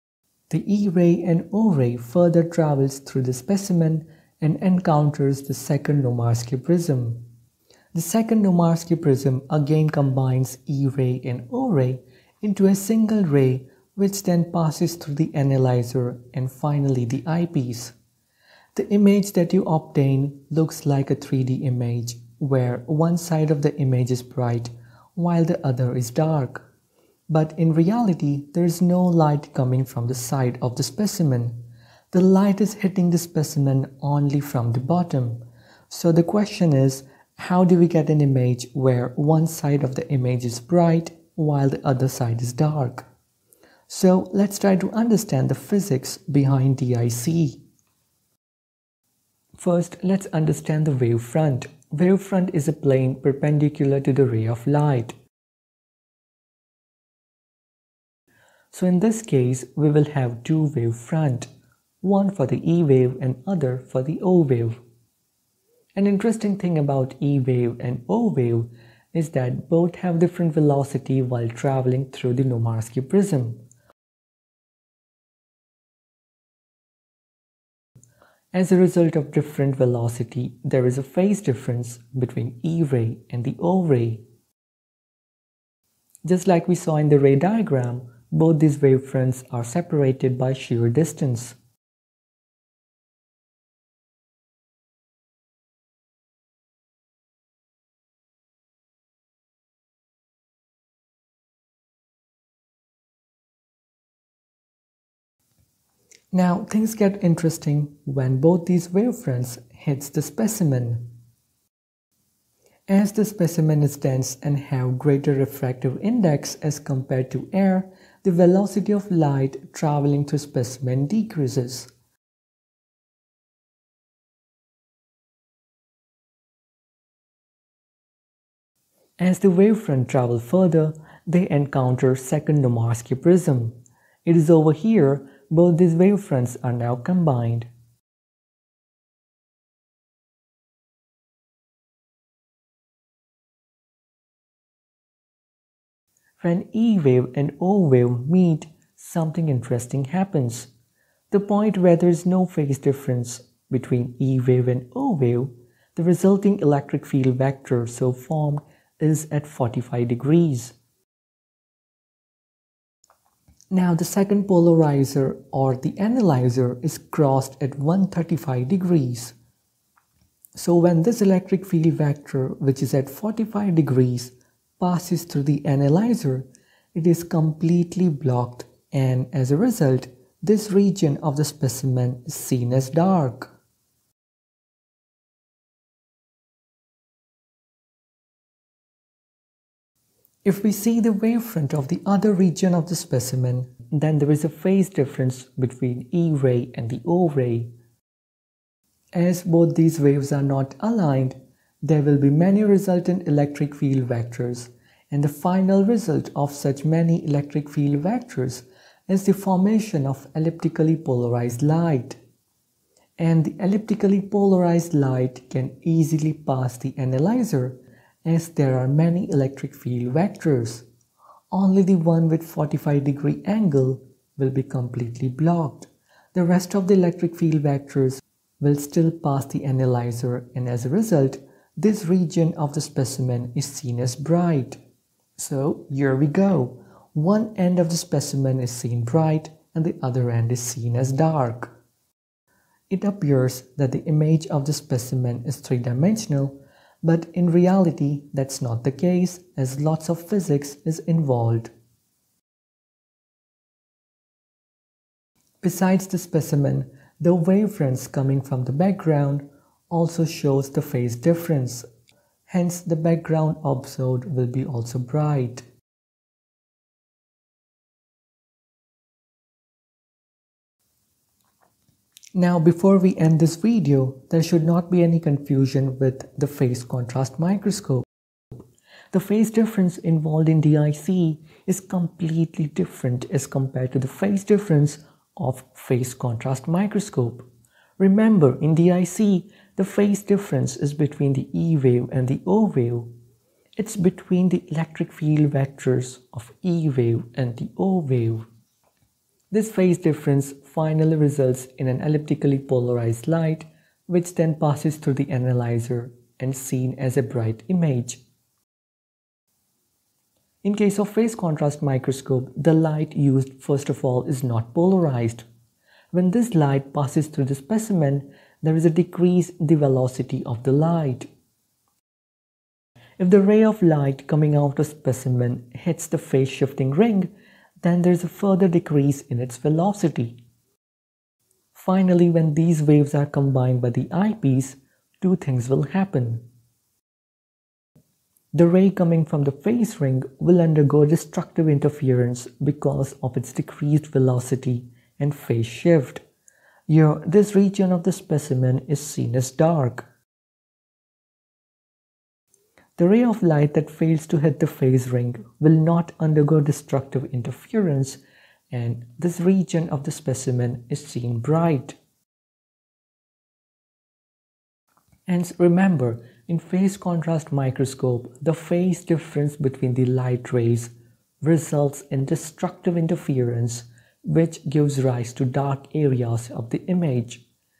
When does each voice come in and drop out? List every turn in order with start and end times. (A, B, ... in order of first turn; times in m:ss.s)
0:00.5-0:07.2 A
0:07.9-0:18.0 A
0:18.8-0:26.6 A
0:27.3-0:43.1 A
0:43.9-0:47.6 A
0:49.6-0:55.2 A
0:58.7-1:01.5 A
1:02.0-1:04.8 A
1:06.0-1:13.6 A
1:18.5-1:24.2 A
1:26.2-1:31.6 A
1:46.3-1:51.1 A
1:52.9-2:01.9 A
2:09.2-2:17.7 A
2:26.4-2:30.7 A
2:31.3-2:40.8 A
2:43.7-2:49.4 A
2:50.6-3:03.5 A
3:10.4-3:17.7 A
3:19.1-3:32.2 A
3:33.2-3:40.8 A
3:41.5-3:54.8 A
3:55.4-4:01.7 A
4:02.9-4:11.7 A
4:15.6-4:21.9 A
4:22.5-4:25.6 A
4:32.4-4:38.1 A
4:39.1-4:47.5 A
4:48.0-4:53.1 A
4:53.8-4:58.5 A
4:59.5-5:08.2 A
5:10.6-5:15.5 A
5:16.1-5:21.3 A
5:23.2-5:27.3 A
5:27.8-5:30.4 A
5:31.7-5:36.4 A
5:38.5-5:46.2 A
5:46.9-5:50.0 A
5:53.0-6:02.0 A
6:05.3-6:17.4 A